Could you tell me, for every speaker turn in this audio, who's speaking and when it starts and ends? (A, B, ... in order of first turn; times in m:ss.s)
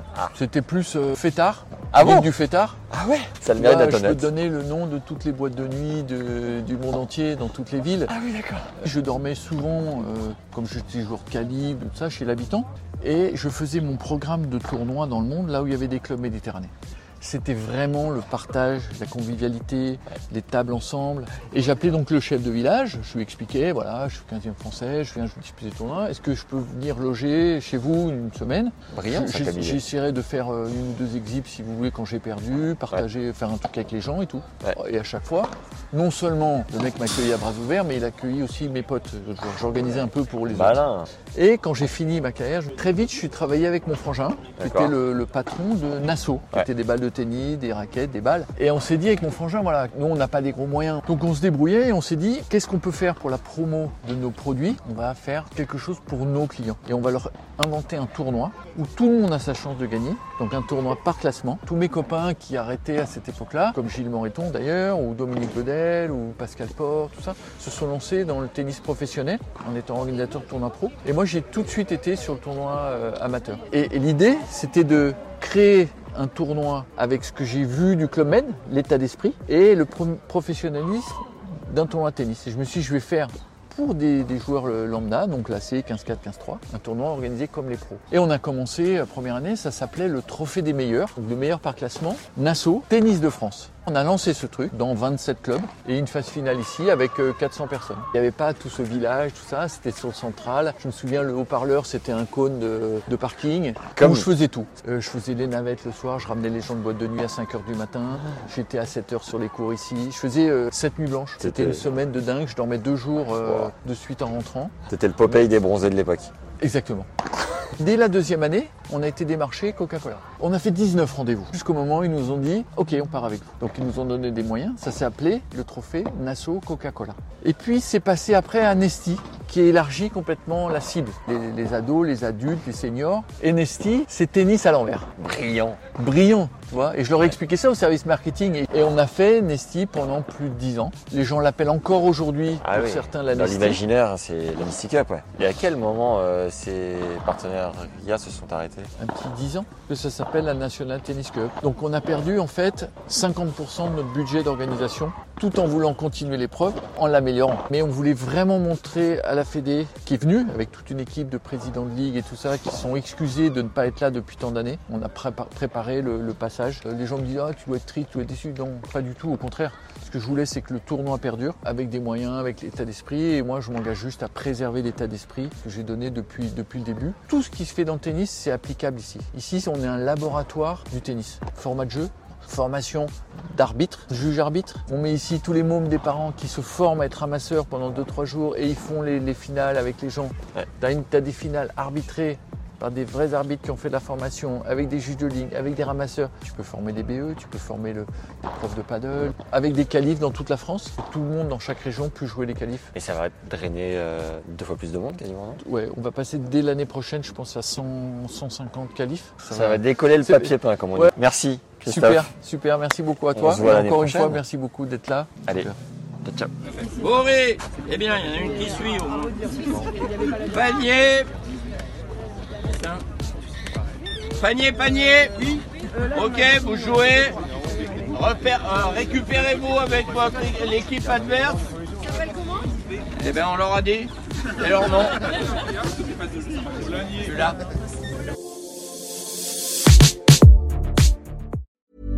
0:00.3-0:02.8 A
0:01.9-0:02.3 B
0:02.9-0:04.3 B
0:03.6-0:08.1 A
0:08.1-0:08.8 B
0:08.8-1:54.7 A
0:28.9-0:29.8 B
0:40.5-0:41.1 B
0:44.6-0:45.0 B
1:44.0-1:44.3 B
1:51.4-1:51.8 B
1:53.4-1:53.7 B
1:54.9-1:56.3 B
1:56.6-1:57.1 A
1:57.8-2:15.1 A
2:15.2-2:15.8 B
2:16.0-2:23.8 A
2:22.6-2:28.9 B
2:29.0-3:22.9 A
3:22.9-3:25.6 B
3:25.6-3:31.1 A
3:29.5-3:32.3 B
3:31.8-3:35.8 A
3:33.3-3:34.4 B
3:36.2-3:36.5 B
3:37.0-3:39.3 C
3:40.4-3:41.3 C
3:44.4-3:47.4 C
3:48.1-3:51.6 C
3:53.2-3:55.2 C
3:57.2-3:57.6 C